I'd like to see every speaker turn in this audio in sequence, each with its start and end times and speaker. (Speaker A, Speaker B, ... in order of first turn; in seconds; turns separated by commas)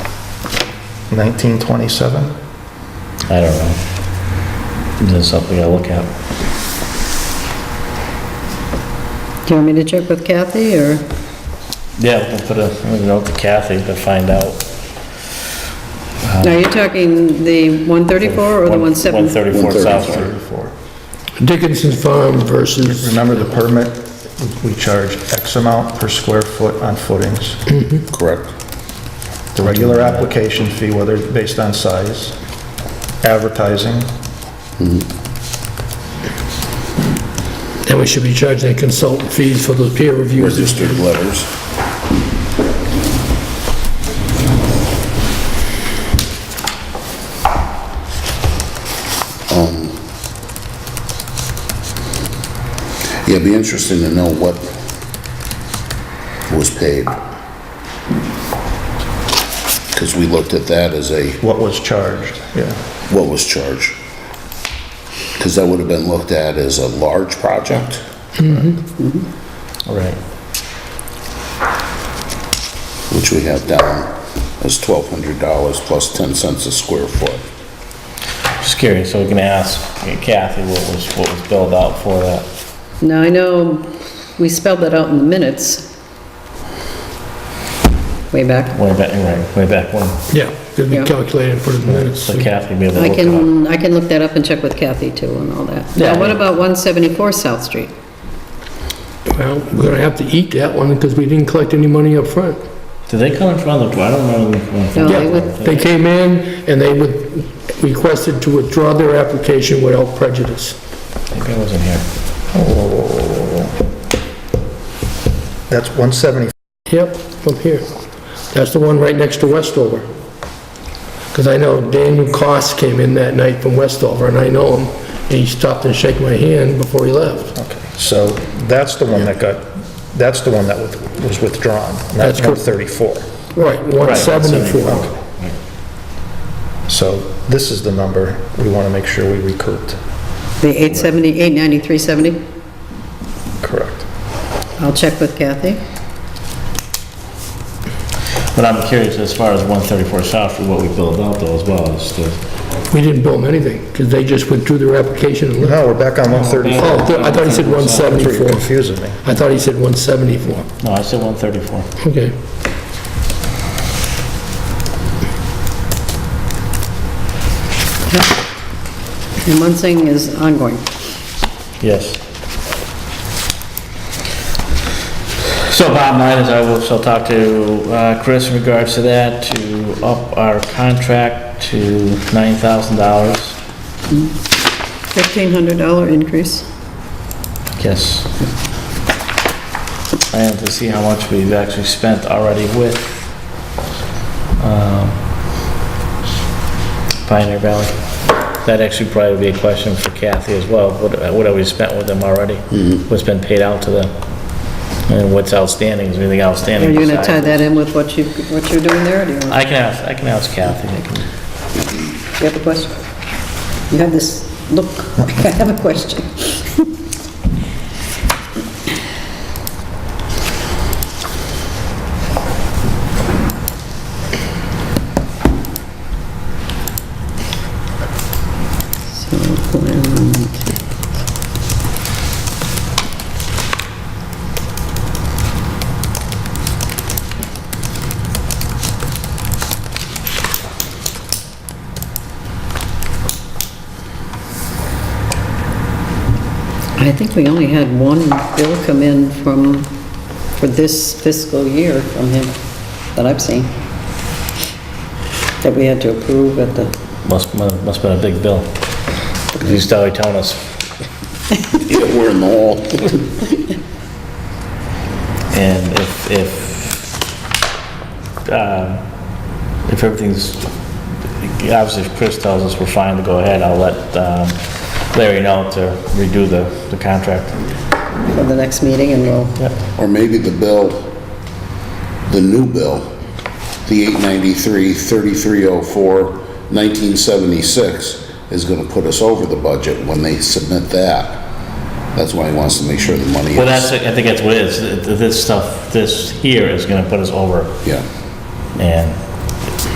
Speaker A: 1.1-2.3, Speaker B: 3.3-3.8, Speaker B: 5.0-6.1, Speaker C: 9.5-11.0, Speaker B: 12.0-14.7, Speaker B: 16.2-16.6, Speaker C: 16.4-19.4, Speaker B: 18.2-20.3, Speaker D: 19.5-20.3, Speaker A: 19.9-20.7, Speaker E: 21.4-23.2, Speaker A: 22.8-27.6, Speaker E: 27.8-28.0, Speaker D: 28.1-28.5, Speaker A: 29.5-32.4, Speaker B: 29.6-30.3, Speaker A: 33.2-34.1, Speaker D: 34.8-35.0, Speaker E: 37.8-41.0, Speaker D: 40.4-41.5, Speaker D: 49.5-50.0, Speaker D: 53.2-54.6, Speaker D: 56.5-57.2, Speaker D: 59.9-61.4, Speaker A: 61.4-62.8, Speaker D: 63.1-64.0, Speaker D: 65.4-68.0, Speaker E: 68.4-68.7, Speaker C: 69.0-69.3, Speaker B: 69.9-70.2, Speaker D: 73.1-77.4, Speaker B: 78.6-82.5, Speaker C: 83.0-83.9, Speaker C: 84.4-85.9, Speaker C: 88.3-88.8, Speaker B: 88.8-90.2, Speaker E: 90.3-92.5, Speaker B: 91.8-93.5, Speaker C: 93.0-97.9, Speaker B: 96.0-96.4, Speaker E: 99.3-102.6, Speaker B: 103.1-105.8, Speaker C: 105.0-105.5, Speaker E: 105.0-110.8, Speaker B: 111.3-112.0, Speaker A: 112.5-113.8, Speaker A: 115.7-116.5, Speaker E: 116.9-117.9, Speaker E: 118.5-120.1, Speaker E: 121.3-127.5, Speaker A: 127.6-133.3, Speaker E: 132.2-132.6, Speaker E: 133.6-135.0, Speaker B: 134.0-135.6, Speaker A: 136.9-140.0, Speaker C: 140.6-142.4, Speaker A: 143.6-144.1, Speaker C: 144.8-145.8, Speaker B: 148.5-152.4, Speaker E: 152.9-155.8, Speaker A: 155.6-157.1, Speaker B: 156.3-158.1, Speaker E: 156.8-158.7, Speaker A: 158.0-159.2, Speaker E: 159.2-160.7, Speaker B: 160.8-161.9, Speaker E: 162.0-162.3, Speaker C: 168.1-168.3, Speaker C: 169.4-170.8, Speaker B: 171.8-172.2, Speaker B: 175.7-183.6, Speaker C: 184.1-184.4, Speaker C: 185.1-186.7, Speaker B: 187.8-188.3, Speaker B: 190.3-193.3, Speaker B: 194.6-195.2, Speaker B: 197.2-198.0, Speaker B: 198.5-204.1, Speaker B: 205.1-207.6, Speaker C: 206.8-209.6, Speaker B: 209.5-211.3, Speaker C: 212.4-213.0, Speaker C: 213.9-216.8, Speaker C: 229.1-230.6, Speaker C: 247.0-249.9, Speaker C: 250.6-252.6, Speaker C: 253.1-253.7, Speaker C: 255.6-256.9, Speaker B: 257.2-258.8, Speaker B: 259.6-260.8, Speaker D: 261.8-263.2, Speaker B: 265.5-267.2, Speaker B: 268.4-269.1, Speaker B: 269.9-270.7, Speaker B: 271.3-277.6, Speaker C: 278.3-279.6, Speaker D: 280.0-281.1, Speaker D: 282.3-283.1, Speaker D: 283.9-291.4, Speaker D: 292.1-293.9, Speaker B: 293.5-297.8, Speaker B: 298.8-299.5